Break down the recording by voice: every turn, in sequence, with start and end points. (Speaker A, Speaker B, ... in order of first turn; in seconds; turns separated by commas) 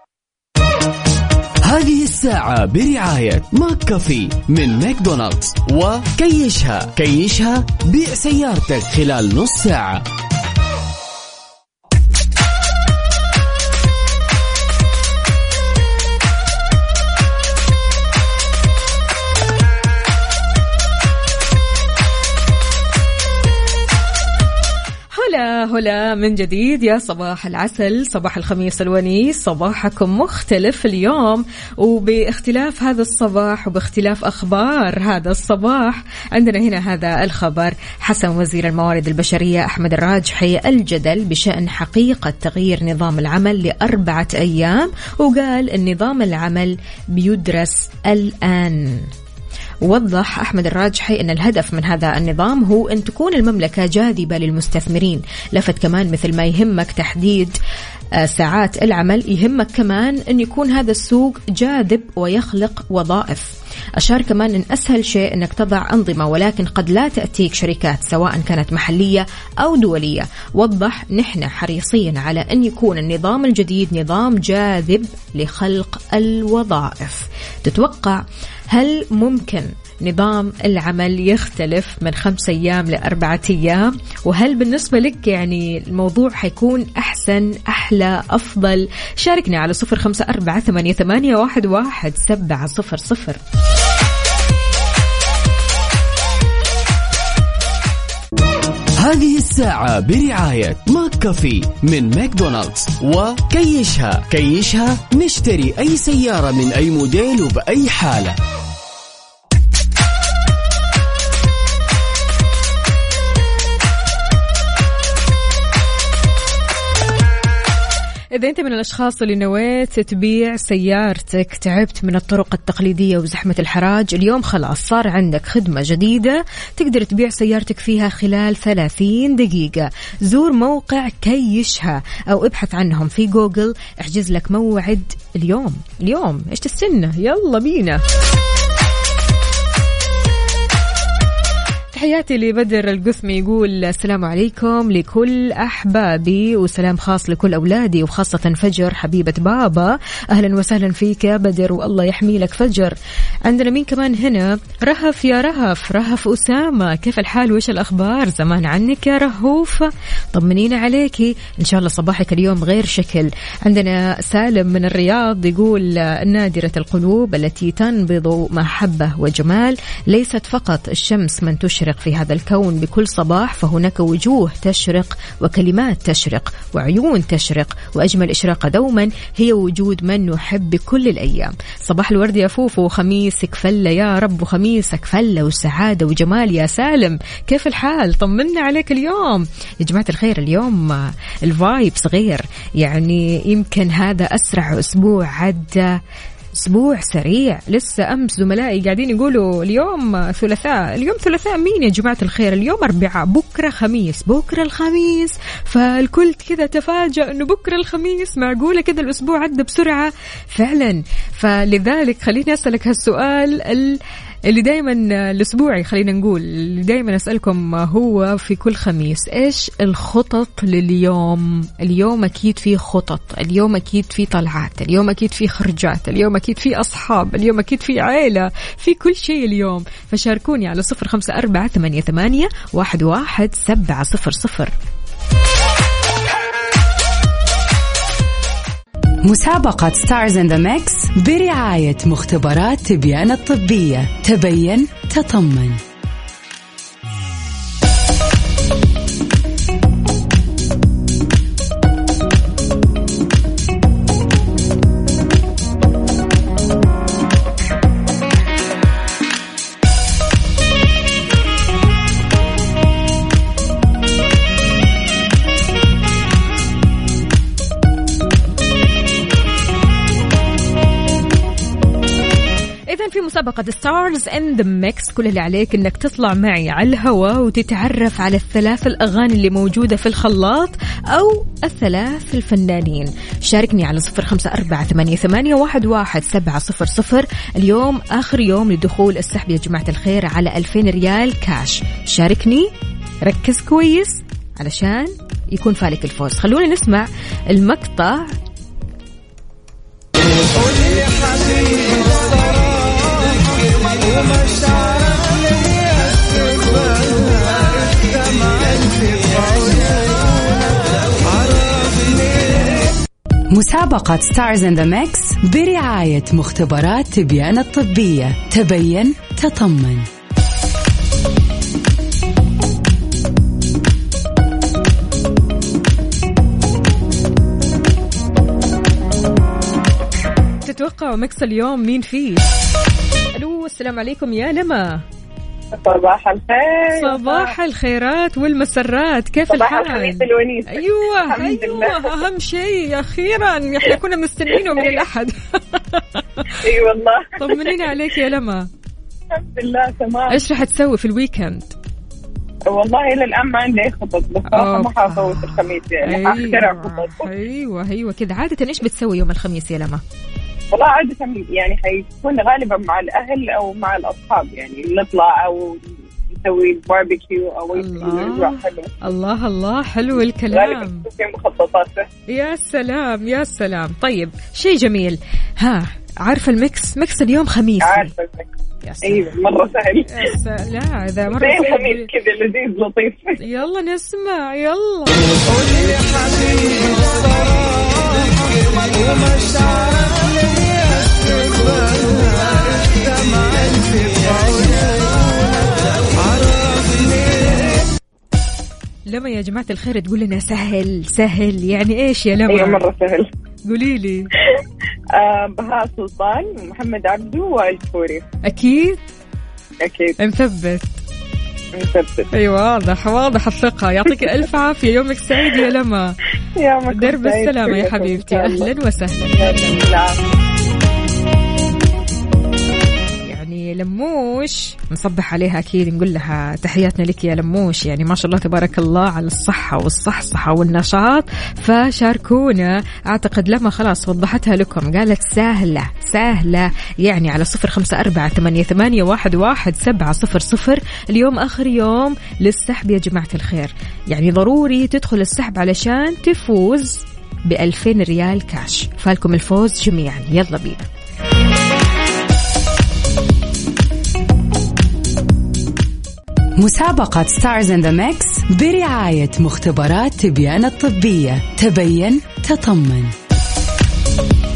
Speaker A: 1.6-10.0, Speaker B: 25.1-49.1, Speaker B: 49.8-57.6, Speaker B: 58.2-93.4, Speaker A: 99.0-108.4, Speaker B: 118.3-138.0, Speaker B: 141.9-196.0, Speaker B: 196.6-234.7, Speaker C: 239.2-245.8, Speaker B: 272.9-292.7, Speaker B: 293.2-298.3, Speaker C: 313.5-320.1, Speaker B: 330.6-332.5, Speaker B: 333.4-335.0, Speaker D: 335.8-337.5, Speaker B: 336.9-346.5, Speaker D: 339.5-342.1, Speaker D: 346.6-347.8, Speaker B: 347.4-348.7, Speaker D: 349.3-350.4, Speaker B: 350.3-351.7, Speaker D: 352.7-357.3, Speaker B: 354.5-360.0, Speaker D: 360.7-369.0, Speaker B: 367.7-371.1, Speaker D: 370.5-372.1, Speaker B: 372.3-378.1, Speaker D: 377.8-378.5, Speaker B: 378.8-379.4, Speaker D: 379.0-380.1, Speaker B: 380.1-382.1, Speaker D: 381.4-383.4, Speaker B: 383.4-385.2, Speaker B: 399.1-402.8, Speaker D: 402.5-403.3, Speaker B: 403.6-404.3, Speaker D: 405.2-408.3, Speaker B: 408.4-409.0, Speaker D: 409.8-410.1, Speaker B: 410.2-411.0, Speaker D: 411.8-412.3, Speaker B: 412.3-416.2, Speaker D: 416.6-418.7, Speaker B: 416.9-419.9, Speaker D: 419.4-420.2, Speaker B: 423.3-450.9, Speaker C: 456.6-463.1